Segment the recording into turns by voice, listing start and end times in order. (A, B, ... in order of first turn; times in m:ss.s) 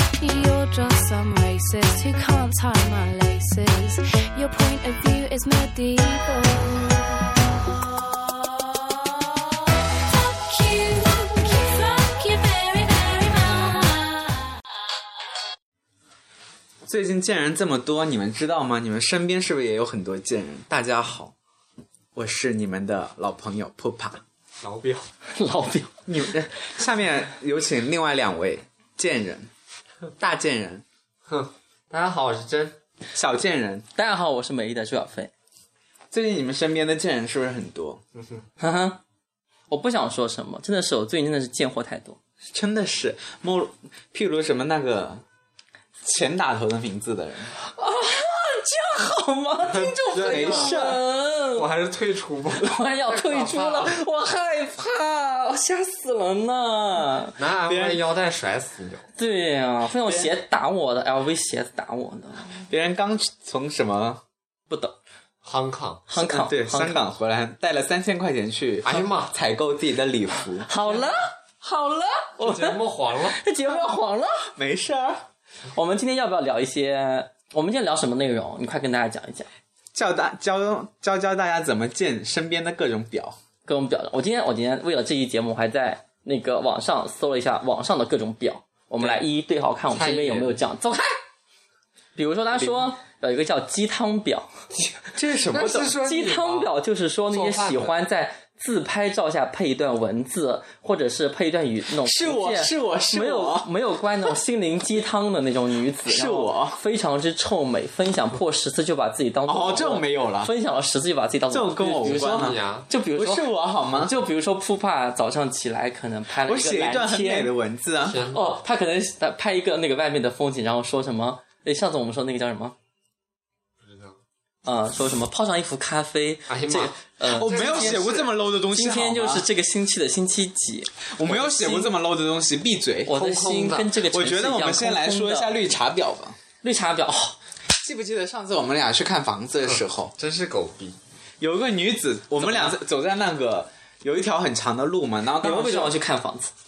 0:00.2-0:07.7 A
0:08.6-0:09.2 A
0:09.9-0:14.6 A
0:16.8-0:21.3 B
0:22.1-0:24.2 B
0:24.6-0:25.1 C
0:25.3-0:25.9 D
0:26.1-0:29.5 B
0:30.2-0:30.8 B
0:31.3-0:32.8 C
0:33.1-0:33.8 B
0:34.0-0:35.3 D
0:36.1-0:38.0 B
0:38.6-0:39.0 D
0:39.7-0:42.2 D
0:42.5-0:45.2 B
0:46.0-0:47.5 B
0:47.6-0:51.6 D
0:49.7-0:50.8 C
0:50.1-0:51.0 B
0:51.5-0:54.0 C
0:52.6-0:57.4 D
0:57.4-0:59.0 C
0:57.7-0:58.0 B
0:59.1-1:02.6 D
1:00.0-1:00.3 B
1:02.6-1:04.2 B
1:04.7-1:05.0 D
1:05.4-1:06.0 C
1:06.1-1:07.1 D
1:06.1-1:10.7 B
1:08.8-1:09.4 C
1:10.6-1:14.5 D
1:12.4-1:13.4 C
1:14.5-1:15.2 B
1:15.7-1:19.5 D
1:19.9-1:23.4 B
1:23.6-1:31.2 D
1:29.0-1:29.2 C
1:29.9-1:30.6 C
1:32.1-1:34.5 D
1:35.1-1:36.0 B
1:35.4-1:36.7 C
1:36.0-1:57.5 D
1:37.3-1:37.9 C
1:41.9-1:43.7 B
1:46.0-1:46.8 B
1:49.4-1:50.5 B
1:51.5-1:52.6 B
1:51.9-1:52.9 C
1:53.1-1:54.1 B
1:56.4-1:58.2 B
1:58.0-1:58.5 C
1:58.3-2:02.8 D
2:03.8-2:04.2 C
2:04.6-2:11.9 D
2:06.5-2:08.3 C
2:07.4-2:09.5 B
2:11.1-2:13.2 B
2:13.0-2:15.6 D
2:13.1-2:13.9 C
2:14.0-2:16.4 B
2:16.6-2:17.4 D
2:17.8-2:20.1 B
2:19.7-2:21.0 C
2:21.4-2:26.0 B
2:22.4-2:22.7 D
2:25.4-2:26.5 D